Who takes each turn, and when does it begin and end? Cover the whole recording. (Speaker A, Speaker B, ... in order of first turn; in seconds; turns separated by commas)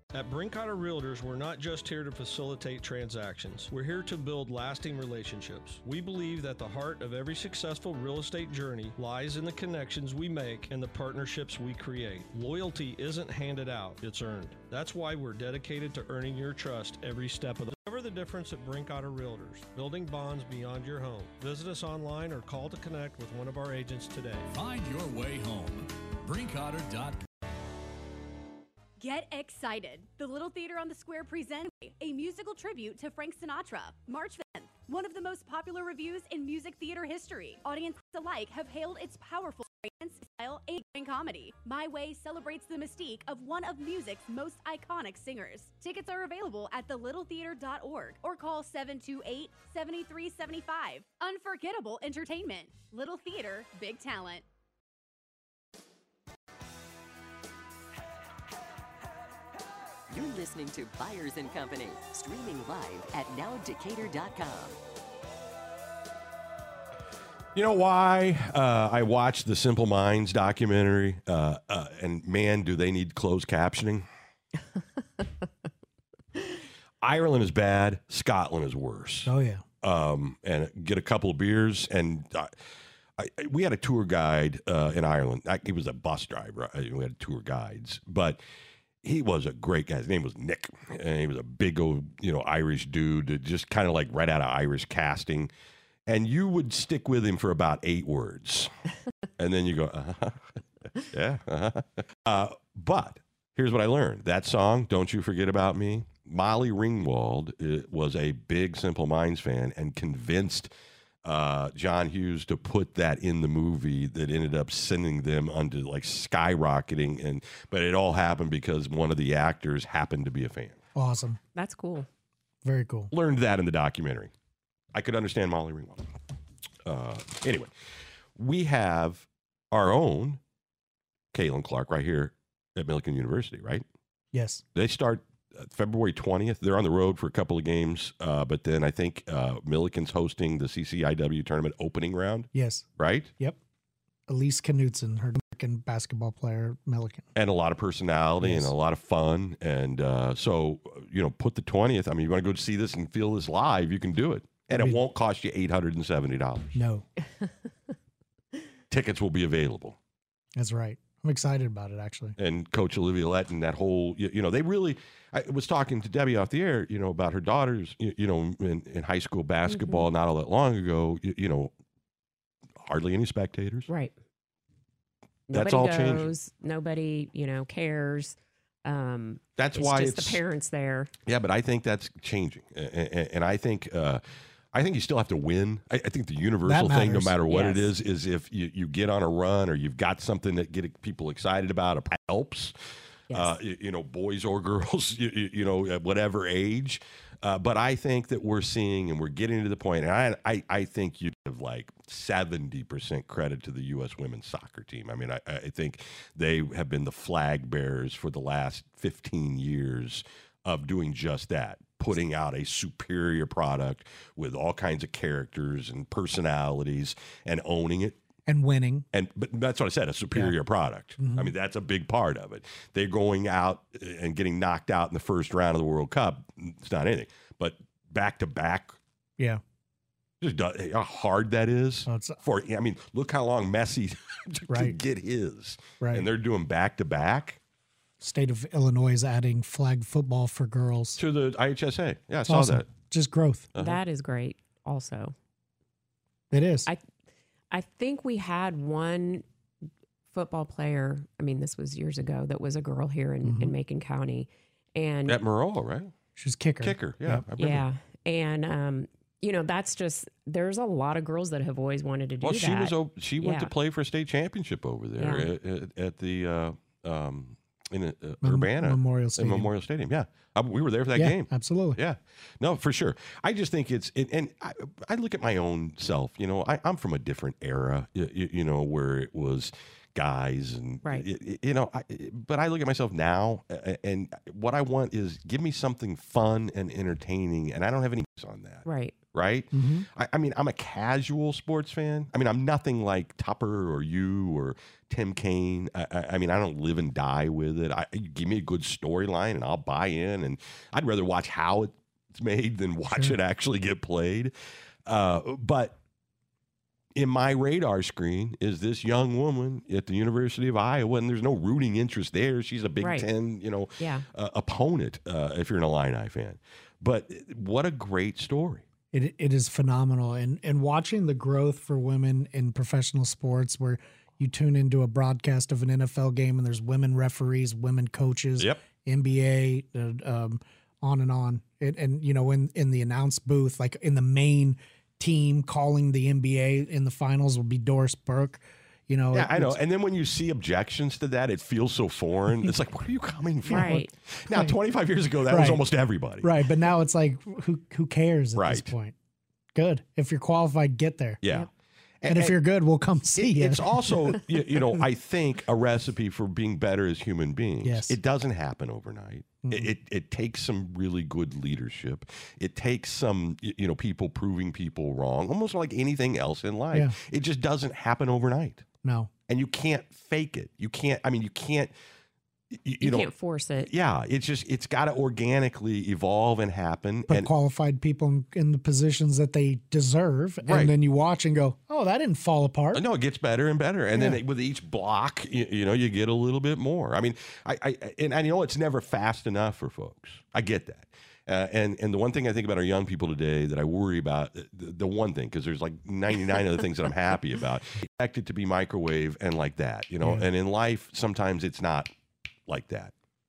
Speaker A: 0.1-24.5, Speaker B: 24.5-27.2, Speaker C: 29.0-54.4, Speaker D: 60.1-64.8, Speaker E: 67.5-74.0, Speaker E: 77.0-82.5, Speaker F: 79.2-79.6, Speaker E: 83.2-88.4, Speaker E: 89.0-95.5, Speaker E: 96.1-98.7, Speaker E: 99.4-110.7, Speaker E: 111.2-120.8, Speaker F: 120.9-121.4, Speaker G: 121.5-122.1, Speaker F: 122.6-123.1, Speaker E: 123.1-124.3, Speaker E: 124.9-126.1, Speaker E: 126.8-127.7, Speaker E: 128.4-130.4, Speaker E: 131.3-133.8, Speaker F: 134.3-134.6, Speaker E: 134.8-143.3, Speaker F: 142.5-142.9, Speaker F: 144.3-147.3, Speaker E: 147.4-156.8, Speaker F: 148.4-148.7, Speaker F: 154.7-155.0, Speaker F: 156.7-157.1, Speaker E: 158.9-160.0, Speaker F: 160.5-162.3, Speaker E: 162.4-171.7, Speaker G: 169.7-170.1, Speaker E: 172.8-173.9, Speaker G: 173.9-174.1, Speaker G: 175.5-181.1, Speaker E: 175.5-176.3, Speaker E: 179.6-180.4, Speaker E: 181.2-184.2, Speaker E: 184.7-192.7, Speaker F: 186.6-187.4, Speaker G: 187.5-187.9, Speaker E: 193.3-218.2, Speaker F: 218.5-219.0, Speaker E: 219.1-229.0, Speaker F: 221.2-221.5, Speaker E: 230.4-237.6, Speaker F: 232.1-232.4, Speaker F: 234.7-235.0, Speaker F: 236.0-236.3, Speaker F: 238.2-241.2, Speaker E: 241.2-242.9, Speaker F: 242.5-243.7, Speaker E: 243.8-244.0, Speaker G: 243.8-245.3, Speaker F: 246.5-246.9, Speaker G: 247.7-249.4, Speaker G: 250.3-255.4, Speaker F: 253.4-253.7, Speaker E: 255.3-256.1, Speaker F: 256.4-257.4, Speaker E: 256.8-257.8, Speaker G: 257.6-263.7, Speaker E: 262.4-304.5, Speaker G: 265.2-265.5, Speaker F: 268.4-269.7, Speaker F: 271.1-272.0, Speaker G: 288.8-289.1, Speaker F: 289.7-290.1, Speaker E: 305.1-306.0, Speaker E: 307.2-318.8, Speaker G: 313.0-313.3, Speaker G: 314.0-314.2, Speaker F: 319.1-339.8, Speaker E: 339.3-346.6, Speaker F: 343.7-344.8, Speaker G: 343.7-344.1, Speaker F: 345.5-345.8, Speaker F: 346.4-349.1, Speaker E: 348.6-348.9, Speaker F: 349.8-351.4, Speaker E: 351.4-351.7, Speaker E: 352.2-352.6, Speaker F: 352.3-354.4, Speaker E: 353.3-368.8, Speaker F: 357.8-358.2, Speaker F: 359.6-359.9, Speaker F: 369.0-369.3, Speaker E: 369.5-371.9, Speaker E: 372.7-377.5, Speaker G: 373.0-373.9, Speaker F: 377.3-383.0, Speaker E: 380.6-380.9, Speaker E: 382.9-402.1, Speaker F: 384.1-384.4, Speaker F: 400.2-400.5, Speaker E: 402.7-403.1